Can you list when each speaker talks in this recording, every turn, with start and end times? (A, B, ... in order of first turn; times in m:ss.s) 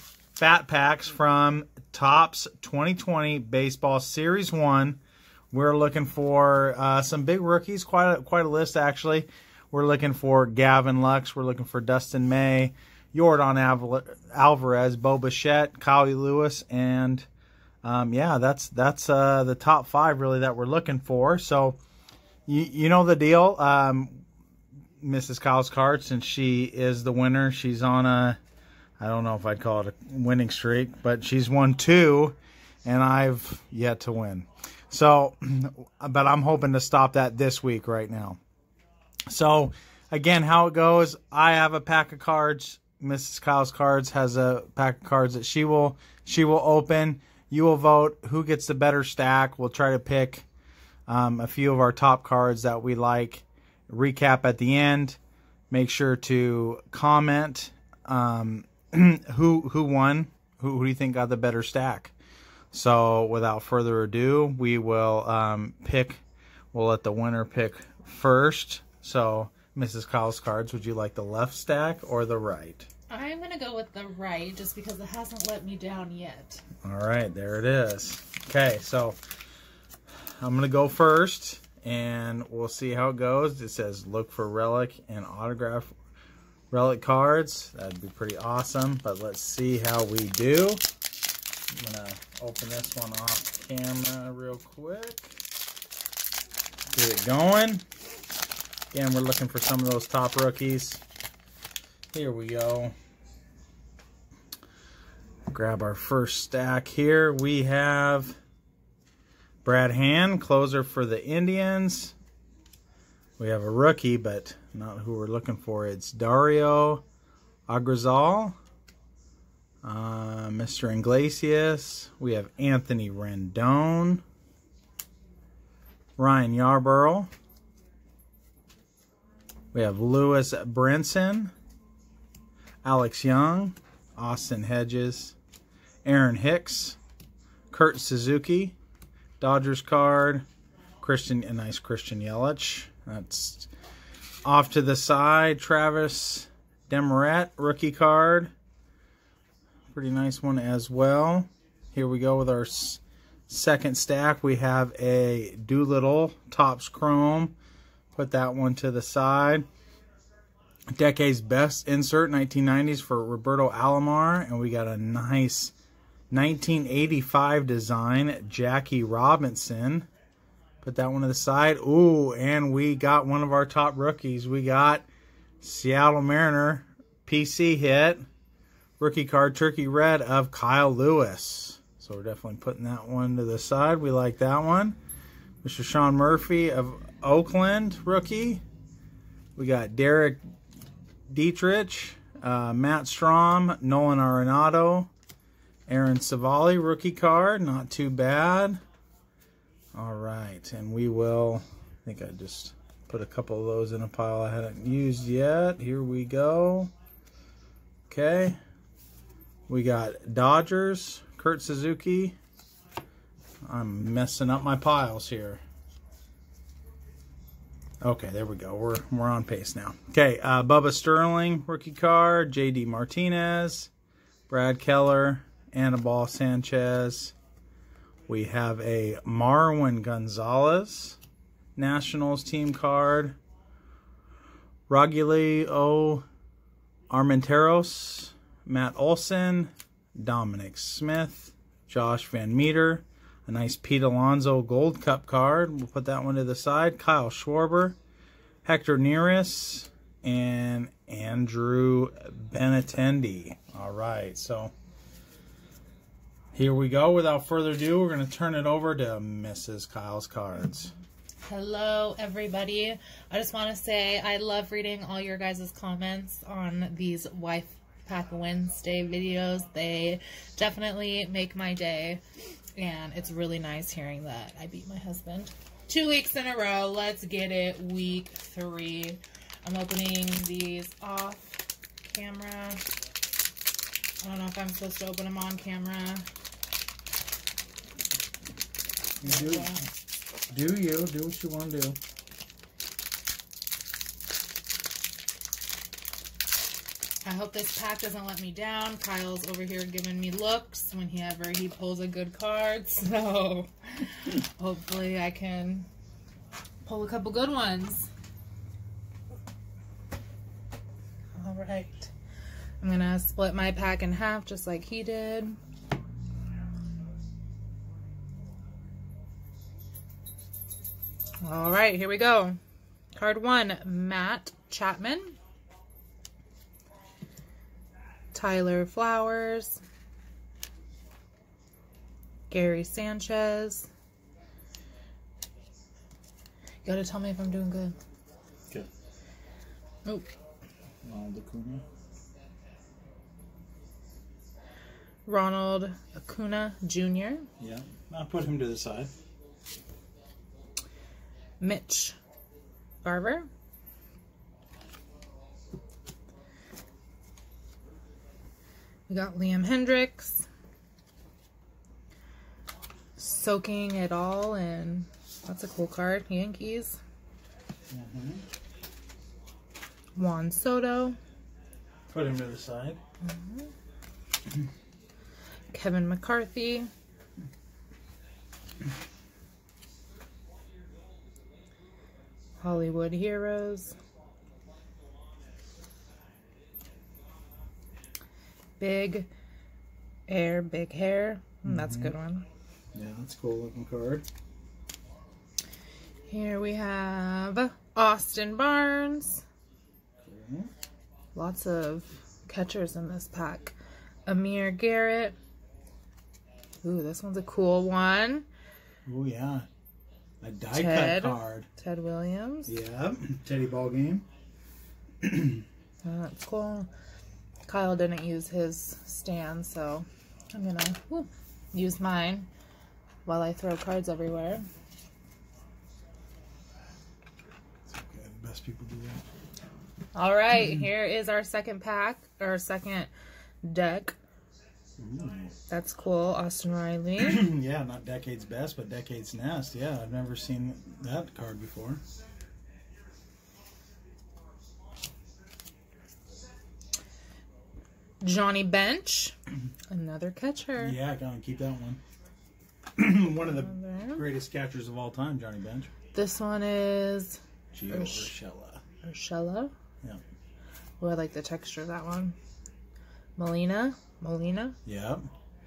0:00.4-0:05.0 A
0:05.5-0:17.3 A
0:17.8-0:21.8 A
0:22.5-0:24.2 A
0:25.0-0:28.4 A
0:29.0-0:38.4 A
0:39.3-0:50.5 A
0:51.1-0:55.2 A
0:55.7-1:02.1 A
1:02.7-1:06.2 A
1:06.7-1:12.9 A
1:13.1-1:16.6 B
1:16.8-1:19.2 A
1:20.4-1:25.9 A
1:26.7-1:30.8 A
1:31.7-1:35.4 A
1:36.9-1:37.8 A
1:38.9-1:41.0 A
1:42.1-1:42.9 A
1:45.5-1:48.4 A
1:49.6-1:52.1 A
1:53.4-1:57.0 A
1:57.7-1:58.6 A
1:59.8-2:04.2 A
2:06.2-2:07.3 A
2:09.7-2:11.5 A
2:12.8-2:15.4 A
2:16.0-2:17.0 A
2:17.7-2:18.8 A
2:19.4-2:20.4 A
2:21.0-2:23.7 A
2:24.4-2:28.5 A
2:29.9-2:37.5 A
2:38.1-2:39.6 A
2:40.9-2:45.7 A
2:46.3-2:50.1 A
2:50.8-2:55.0 A
2:55.6-2:58.2 A
2:59.0-3:05.0 A
3:05.6-3:08.6 A
3:09.6-3:10.4 A
3:11.3-3:15.1 A
3:15.9-3:18.8 A
3:19.9-3:26.9 A
3:28.1-3:28.6 A
3:29.7-3:32.4 A
3:33.6-3:35.6 A
3:38.0-3:43.9 A
3:44.5-3:47.3 A
3:48.3-3:51.2 A
3:51.8-3:53.4 A
3:54.9-3:56.2 A
3:57.1-4:08.0 A
4:08.6-4:14.7 A
4:16.5-4:20.9 A
4:21.4-4:32.2 B
4:32.8-4:42.8 B
4:44.2-4:46.3 B
4:49.2-4:49.8 A
4:49.2-4:49.9 B
4:50.5-4:52.0 A
4:57.2-5:05.9 B
5:06.8-5:08.1 B
5:11.4-5:12.1 B
5:12.8-5:15.6 B
5:21.4-5:22.6 B
5:23.1-5:25.4 B
5:28.3-5:29.8 B
5:32.5-5:33.9 B
5:36.8-5:38.0 B
5:41.0-5:41.8 A
5:45.2-5:47.5 B
5:47.6-5:49.1 A
5:51.6-5:52.2 B
5:53.0-5:53.5 B
5:59.1-6:00.5 B
6:03.2-6:07.0 B
6:07.9-6:08.4 A
6:10.2-6:11.2 B
6:12.1-6:13.0 A
6:13.2-6:13.7 B
6:15.7-6:16.9 B
6:22.6-6:24.0 B
6:28.8-6:29.3 B
6:30.3-6:32.4 B
6:31.6-6:32.1 A
6:32.9-6:34.2 A
6:36.3-6:39.4 B
6:40.2-6:40.7 A
6:41.3-6:45.4 B
6:46.8-6:48.4 B
6:49.0-6:49.7 A
6:50.4-6:51.7 A
6:50.7-6:52.7 B
6:52.7-6:54.2 A
6:55.2-6:55.6 A
6:56.0-6:56.9 B
6:57.7-7:02.5 B
7:03.2-7:04.6 B
7:07.9-7:09.2 A
7:10.1-7:13.1 B
7:13.6-7:14.1 B
7:15.0-7:15.5 A
7:15.7-7:17.4 B
7:17.2-7:22.0 A
7:28.2-7:29.3 B
7:29.9-7:31.0 B
7:30.8-7:32.0 A
7:33.0-7:35.9 A
7:33.4-7:34.2 B
7:36.1-7:38.3 B
7:37.7-7:38.8 A
7:39.0-7:39.7 B
7:41.0-7:42.4 B
7:43.4-7:44.8 B
7:44.8-7:45.3 A